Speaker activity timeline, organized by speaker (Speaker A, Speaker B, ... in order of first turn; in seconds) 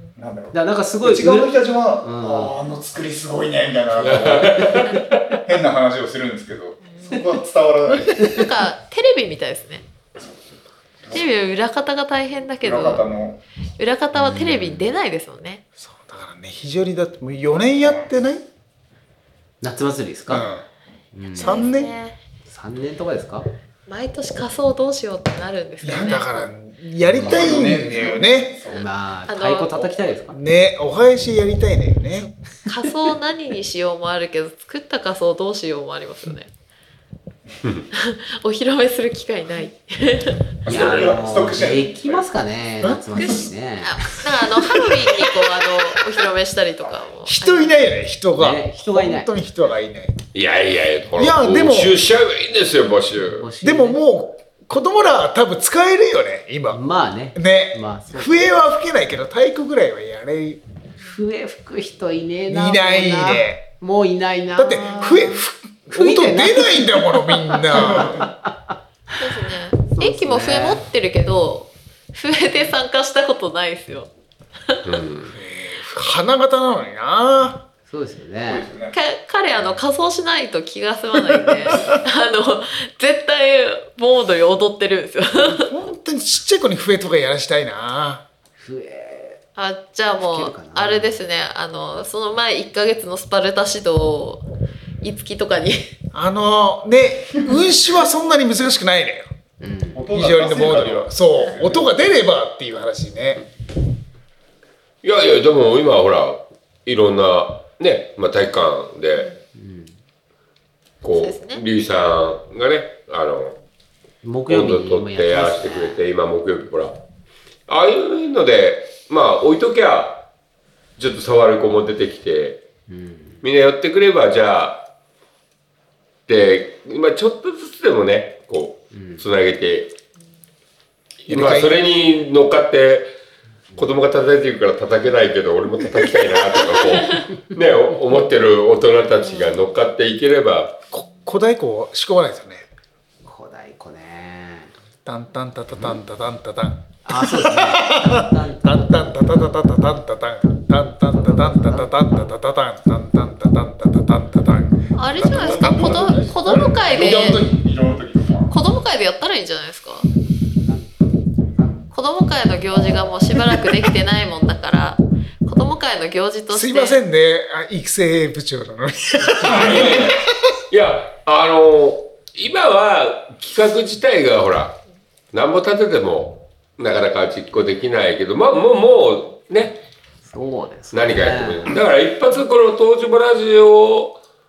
Speaker A: 0.2-8.5, 12.6-13.4, 17.8-18.1, 27.1-28.8, 40.6-42.3, 78.5-79.0, 99.9-101.9, 155.1-158.6
Speaker B: 0.5-2.6, 4.4-4.8, 14.1-14.9, 19.6-20.5, 21.1-21.7, 22.4-23.5, 27.1-27.9, 28.7-30.4, 40.6-44.5, 48.4-49.3, 53.2-54.0, 56.7-58.5, 61.0-68.8, 69.3-70.8, 77.9-78.7, 88.6-89.4, 90.2-91.2, 99.6-100.0, 109.5-110.0, 114.2-116.0, 122.9-123.4, 128.9-129.2, 143.2-144.7, 147.0-149.8, 151.1-152.4, 160.6-160.9, 161.6-161.8, 180.2-181.8
Speaker C: 4.0-5.2, 50.3-53.5, 74.8-75.4, 100.4-101.1, 105.0-109.3, 111.0-113.6, 114.5-117.0, 117.7-120.3, 121.0-122.6, 123.4-124.9, 126.3-129.9, 131.2-133.1, 133.8-140.8, 169.4-174.8, 175.3-179.8, 180.9-184.2
Speaker D: 8.2-9.8, 11.1-13.1, 13.8-15.6, 21.3-22.2, 23.9-26.4, 29.3-29.9, 32.7-36.5, 37.9-40.5, 43.1-47.7, 64.8-65.4, 69.2-74.1, 78.9-85.7, 89.5-94.4, 95.0-95.8, 111.1-111.6, 154.9-157.4, 158.5-160.1, 161.9-167.0
Speaker E: 15.8-18.5, 20.3-20.6, 21.4-21.9, 25.8-28.6, 30.3-32.3, 47.2-50.2, 51.1-52.0, 53.6-56.8, 57.3-60.6, 62.5-63.7, 64.6-68.3, 75.3-77.7, 81.6-81.8, 85.5-88.2, 96.1-99.3, 100.1-103.4, 131.3-131.8, 140.9-142.7, 145.1-154.9, 166.5-170.2